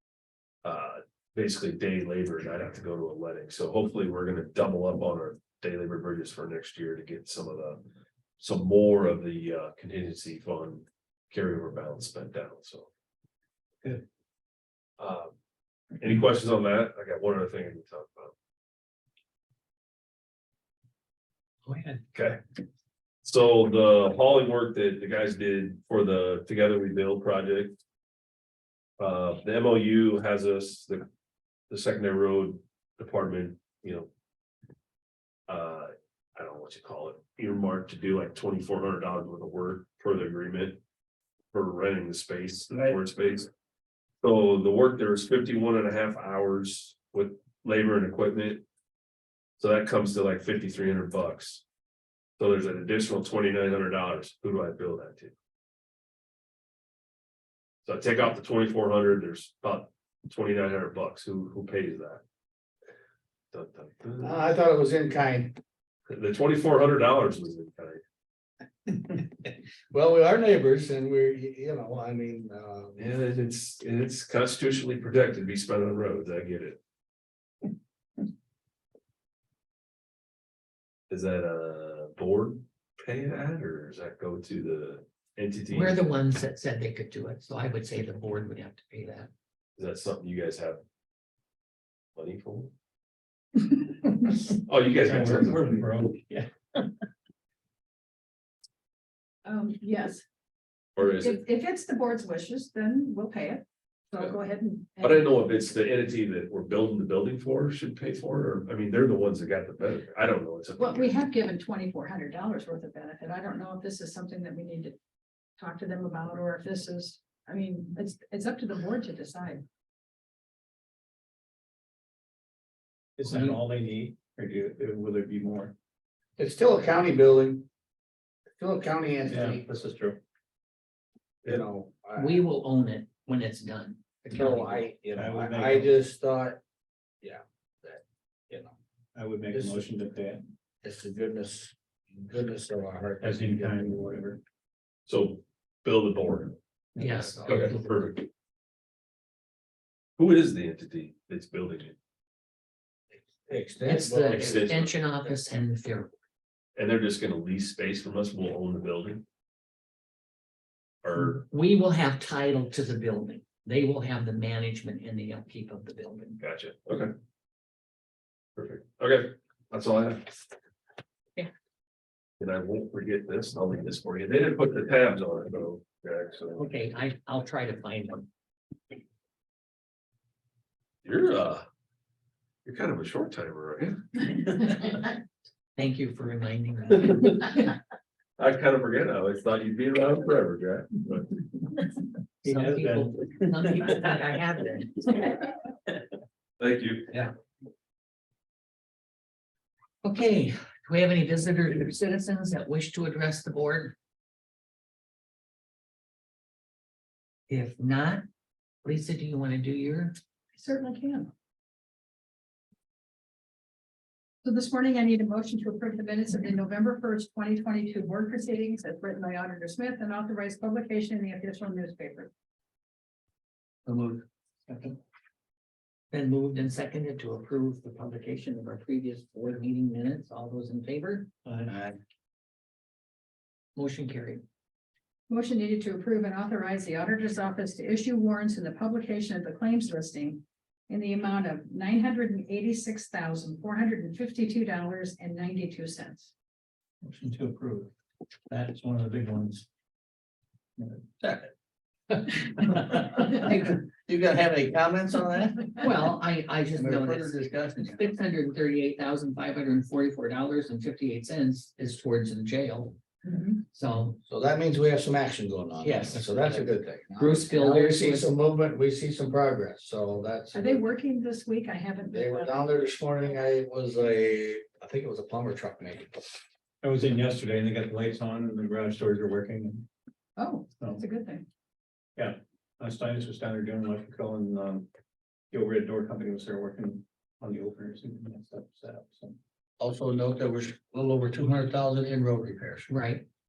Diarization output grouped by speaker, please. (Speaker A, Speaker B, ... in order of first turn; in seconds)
Speaker A: 0.6-7.8, 8.4-12.9, 15.0-15.3, 16.0-18.3, 22.1-22.4, 23.2-27.8, 29.0-31.1, 31.7-34.1, 35.5-40.8, 41.5-43.5, 44.2-48.6, 49.6-51.6, 52.4-55.3, 57.8-62.2, 63.5-64.4, 66.1-68.0, 73.0-76.8, 81.1-86.0, 89.8-90.8, 92.2-92.7, 94.5-95.7, 101.0-101.4, 105.0-111.2, 145.1-146.6, 147.4-148.2, 150.2-152.0, 154.3-154.9, 156.8-159.2, 161.0-161.4, 166.4-167.1, 168.6-170.4, 172.4-176.8, 181.0-181.7, 182.7-184.2, 188.4-191.4, 196.6-197.2
Speaker B: 21.7-22.0, 85.7-89.3, 123.2-123.6, 132.2-134.9, 147.0-148.0, 153.8-156.1, 161.2-166.4, 176.6-178.3, 185.8-187.5, 192.4-195.4, 200.0-203.9, 207.5-208.2, 208.8-210.2, 226.1-231.3, 233.8-234.4, 255.8-263.0, 263.7-264.2, 265.8-266.6, 267.2-268.3, 292.9-293.2
Speaker C: 64.2-65.6, 69.9-73.0, 126.4-127.7, 128.6-129.7, 131.4-132.4, 134.3-136.6, 137.2-138.7, 139.5-139.8, 140.8-144.1, 153.5-154.6, 223.9-224.2, 231.7-232.0, 252.8-256.1, 256.8-258.1, 264.3-270.8, 272.1-276.2, 289.8-292.9
Speaker D: 95.0-96.9, 123.2-125.7, 129.3-130.2, 135.1-135.9, 139.2-140.4, 143.2-144.4, 192.4-193.2, 224.7-224.9, 231.4-231.7, 247.0-247.9, 248.5-249.7, 250.8-251.1, 276.8-279.9, 282.1-284.9, 285.5-289.4
Speaker E: 99.5-100.2, 101.0-105.3, 110.8-115.0, 115.6-119.6, 210.6-211.3, 214.4-222.3, 235.3-246.3, 263.2-263.6, 270.5-272.6, 280.4-281.4